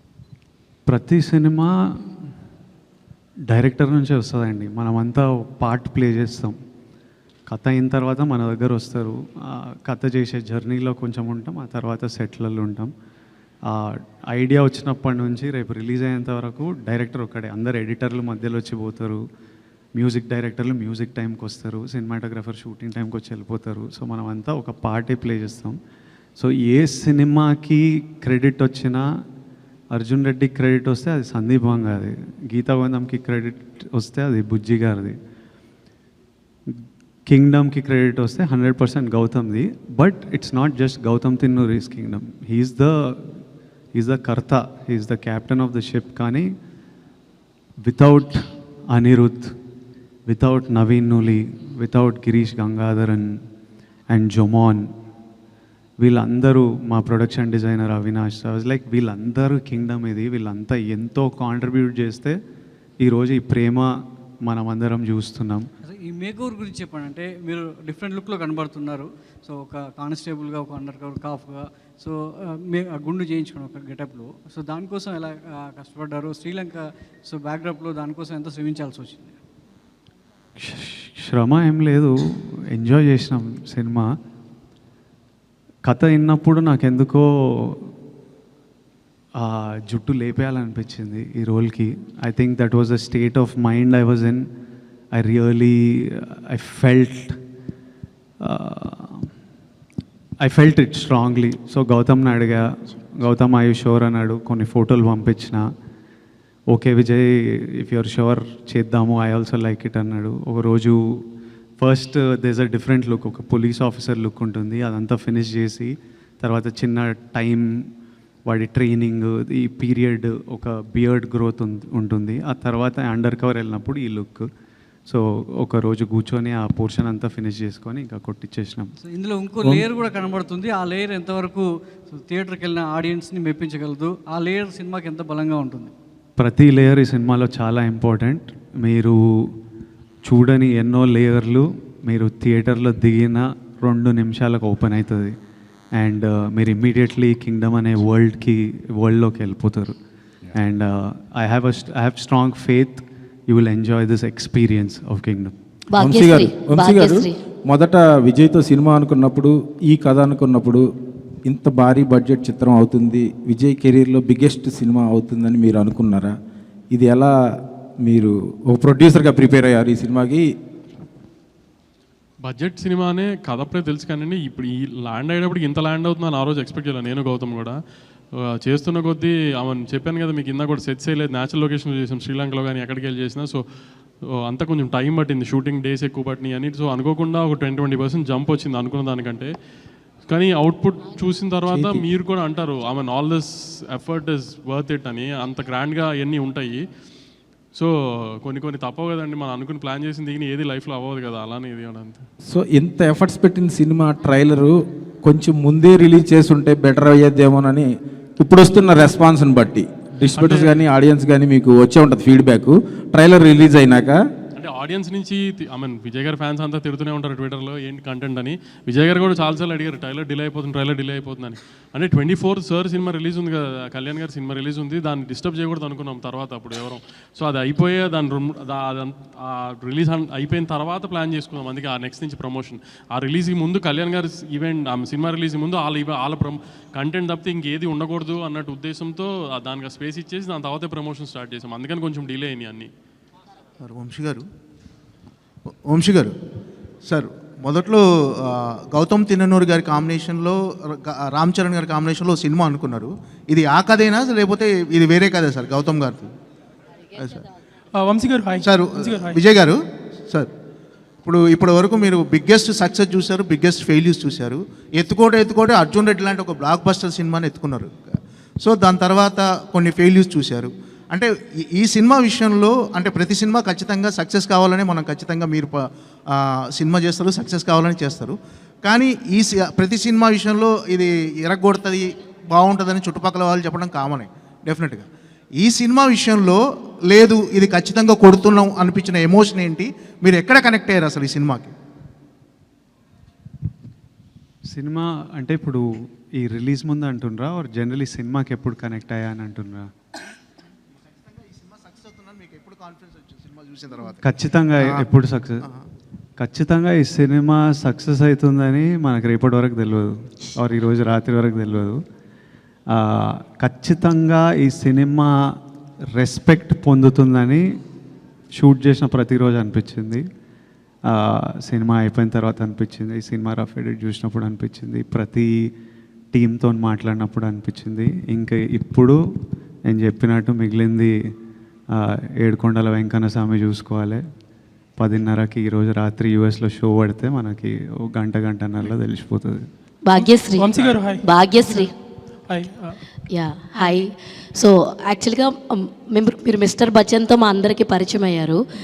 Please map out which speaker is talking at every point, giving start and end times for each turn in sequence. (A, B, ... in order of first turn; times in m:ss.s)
0:00.8-0:02.3 A
0:03.5-0:06.6 A
0:07.5-0:12.9 A
0:13.7-0:19.2 A
0:19.9-0:25.8 A
0:26.4-0:29.0 A
0:29.9-0:35.2 A
0:36.7-0:43.4 A
0:43.9-0:46.5 A
0:47.8-0:49.5 A
0:50.3-0:53.4 A
0:54.1-0:54.8 A
0:56.0-1:02.4 A
1:03.0-1:03.9 A
1:04.4-1:05.7 A
1:05.8-1:19.4 B
1:20.6-1:24.1 A
1:25.8-1:27.9 A
1:29.4-1:34.4 A
1:35.1-1:37.4 A
1:38.4-1:39.3 A
1:40.4-1:45.6 A
1:46.7-1:51.2 A
1:51.8-1:57.9 A
1:58.4-2:04.5 A
2:05.1-2:08.9 A
2:09.0-2:15.9 B
2:16.4-2:19.5 A
2:20.2-2:25.3 A
2:25.9-2:29.9 A
2:30.5-2:35.5 A
2:35.9-2:37.4 C
2:36.0-2:40.8 D
2:41.4-2:46.3 D
2:46.9-2:47.3 D
2:48.0-2:50.4 D
2:52.4-2:57.8 E
2:58.4-3:03.6 E
3:04.4-3:09.5 E
3:10.3-3:16.8 E
3:11.7-3:12.0 D
3:18.4-3:22.2 E
3:22.4-3:27.9 D
3:28.4-3:34.2 D
3:30.3-3:30.8 E
3:34.6-4:02.9 E
4:03.8-4:04.4 F
4:05.8-4:06.3 F
4:07.0-4:16.3 F
4:17.2-4:17.4 F
4:17.9-4:19.4 G
4:18.6-4:19.8 F
4:21.2-4:51.7 F
4:54.6-4:59.9 A
5:01.2-5:04.2 F
5:04.2-5:05.7 A
5:06.4-5:12.0 A
5:12.9-5:15.6 A
5:16.1-5:17.6 A
5:18.6-5:20.2 A
5:21.1-5:25.7 A
5:26.3-5:29.2 A
5:29.8-5:31.2 A
5:31.9-5:34.2 A
5:35.0-5:39.6 A
5:40.0-5:41.9 C
5:40.1-5:41.9 G
5:42.5-5:43.0 G
5:43.3-5:48.6 C